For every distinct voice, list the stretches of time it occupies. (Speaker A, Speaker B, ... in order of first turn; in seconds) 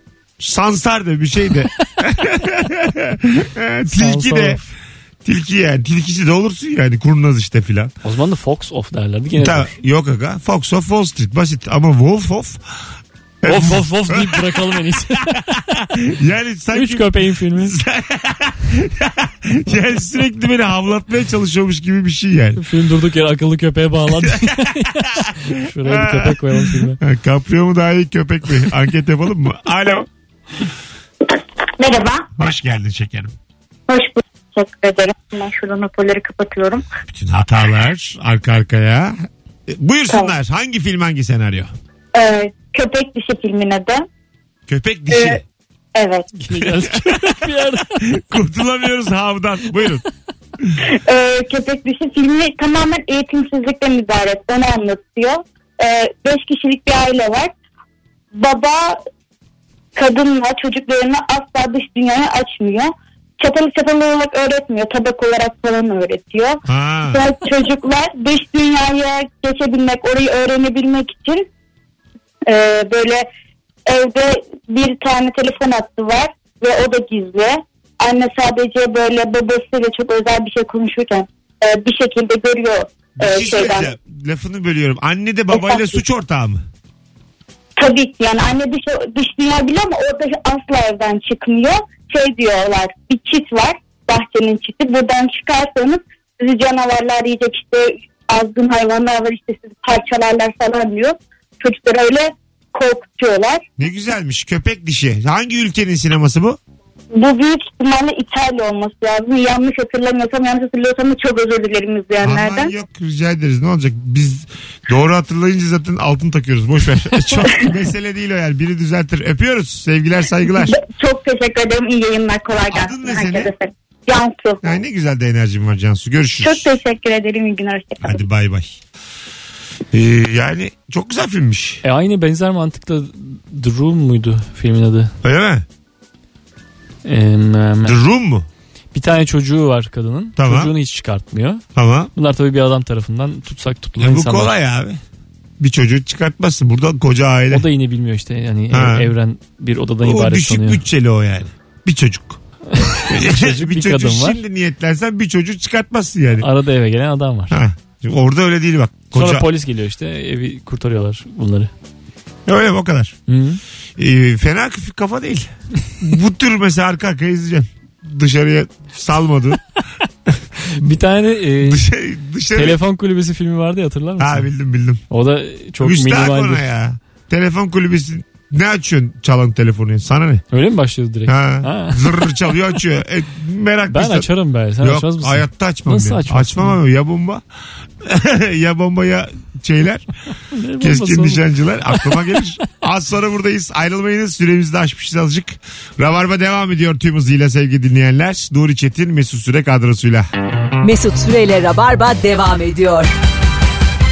Speaker A: 0.4-4.6, 5.2-7.9, 9.3-12.6, 13.4-14.8, 15.5-22.6, 24.2-30.1, 32.4-33.3, 37.1-41.7, 44.7-45.4, 46.6-50.0, 66.7-67.2, 83.2-86.6, 103.8-106.6, 112.2-120.8, 122.7-123.5, 124.6-126.7, 128.0-128.8, 129.9-131.8, 135.2-135.6, 137.8-138.5, 140.4-140.7, 141.7-142.1, 144.0-145.0, 145.6-147.7, 148.7-149.1, 150.0-152.4, 153.1-156.5, 157.5-159.5, 162.5-163.2, 164.0-169.6, 171.6-172.8, 174.2-175.0, 175.8-180.4, 181.2-184.3, 184.8-187.4, 188.0-190.1, 190.8-200.3
Speaker B: 3.9-4.7, 8.0-9.7, 13.4-15.4, 16.7-17.8, 22.6-27.0, 46.3-48.0, 131.8-135.1, 137.0-138.0, 138.9-141.6, 142.1-144.5, 147.5-150.8, 152.7-154.4, 156.4-157.6, 159.1-161.7, 163.3-163.6, 170.7-171.8, 172.5-174.5, 175.1-176.6, 180.5-182.3, 183.9-186.8, 190.5-192.1
Speaker C: 31.8-32.3, 33.9-36.9, 42.1-44.0, 45.1-45.4, 45.9-46.3, 50.9-57.5, 58.3-59.0, 59.9-71.5, 72.5-73.3, 73.8-83.9, 85.5-86.0, 87.8-103.6, 107.1-112.7, 117.3-117.7, 120.6-124.7, 126.4-128.2
Speaker D: 200.8-203.1